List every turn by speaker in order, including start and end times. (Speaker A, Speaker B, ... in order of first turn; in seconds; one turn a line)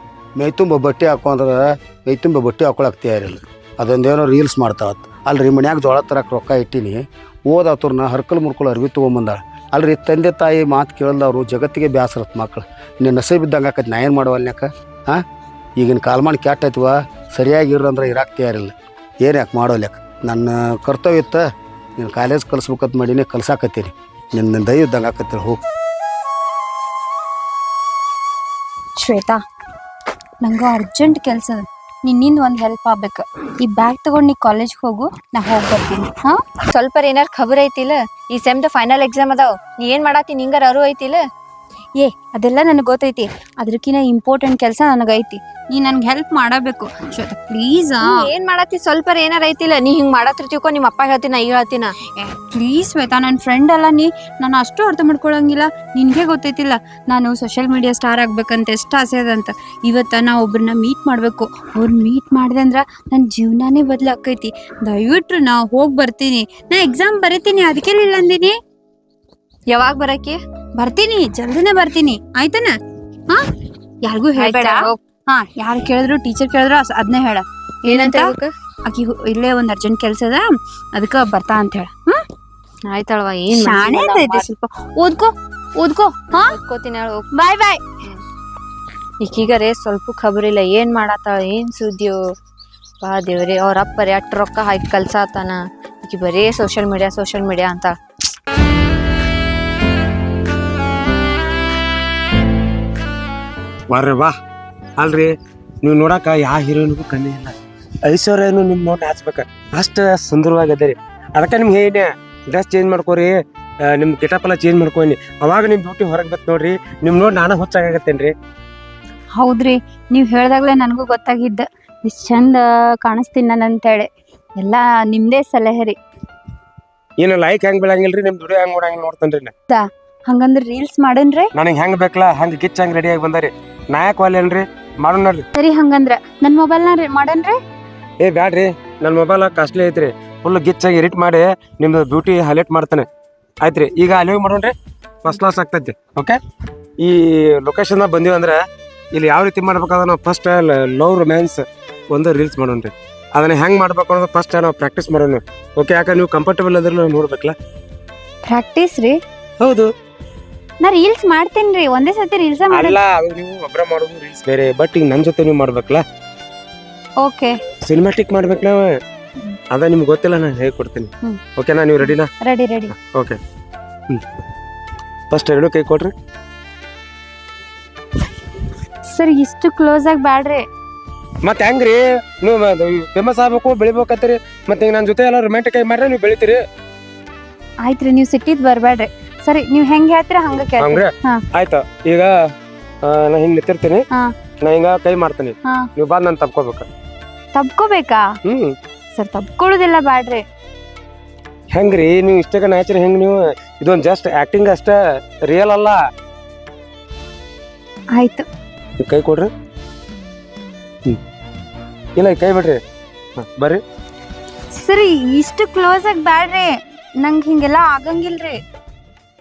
Speaker A: 0.3-15.2
Speaker A: 15.8-21.4
Speaker A: 22.0-25.6
Speaker B: 29.0-29.4
Speaker B: 30.4-36.4
Speaker C: 36.7-41.2
Speaker B: 41.9-48.1
Speaker C: 48.0-51.9
Speaker B: 52.1-68.5
Speaker C: 69.7-70.4
Speaker B: 70.8-72.7
Speaker B: 74.0-78.3
Speaker C: 74.3-75.0
Speaker C: 77.9-78.5
Speaker B: 78.8-82.2
Speaker C: 82.9-84.5
Speaker B: 83.5-86.5
Speaker C: 86.3-87.3
Speaker B: 87.3-87.8
Speaker C: 89.2-92.2
Speaker C: 93.0-97.9
Speaker D: 103.9-104.3
Speaker D: 105.0-118.3
Speaker B: 119.3-126.0
Speaker D: 127.2-129.5
Speaker B: 129.7-131.5
Speaker D: 131.5-135.4
Speaker B: 135.5-137.6
Speaker D: 138.2-143.1
Speaker D: 143.6-146.4
Speaker D: 147.0-157.5
Speaker B: 158.4-159.2
Speaker D: 159.6-159.9
Speaker B: 160.8-163.0
Speaker D: 162.7-166.0
Speaker B: 167.2-167.6
Speaker D: 167.8-168.9
Speaker D: 169.7-172.3
Speaker B: 172.4-172.9
Speaker D: 172.9-173.4
Speaker D: 175.3-176.1
Speaker B: 179.0-180.7
Speaker D: 181.4-186.6
Speaker B: 187.8-191.4
Speaker D: 190.8-192.4
Speaker D: 193.0-194.0
Speaker D: 194.6-196.9
Speaker B: 197.5-198.3
Speaker D: 198.4-198.7
Speaker B: 199.1-200.4
Speaker D: 201.7-206.0
Speaker B: 208.1-208.4
Speaker D: 209.0-209.5
Speaker D: 212.2-212.8
Speaker D: 213.3-213.8
Speaker B: 214.7-218.6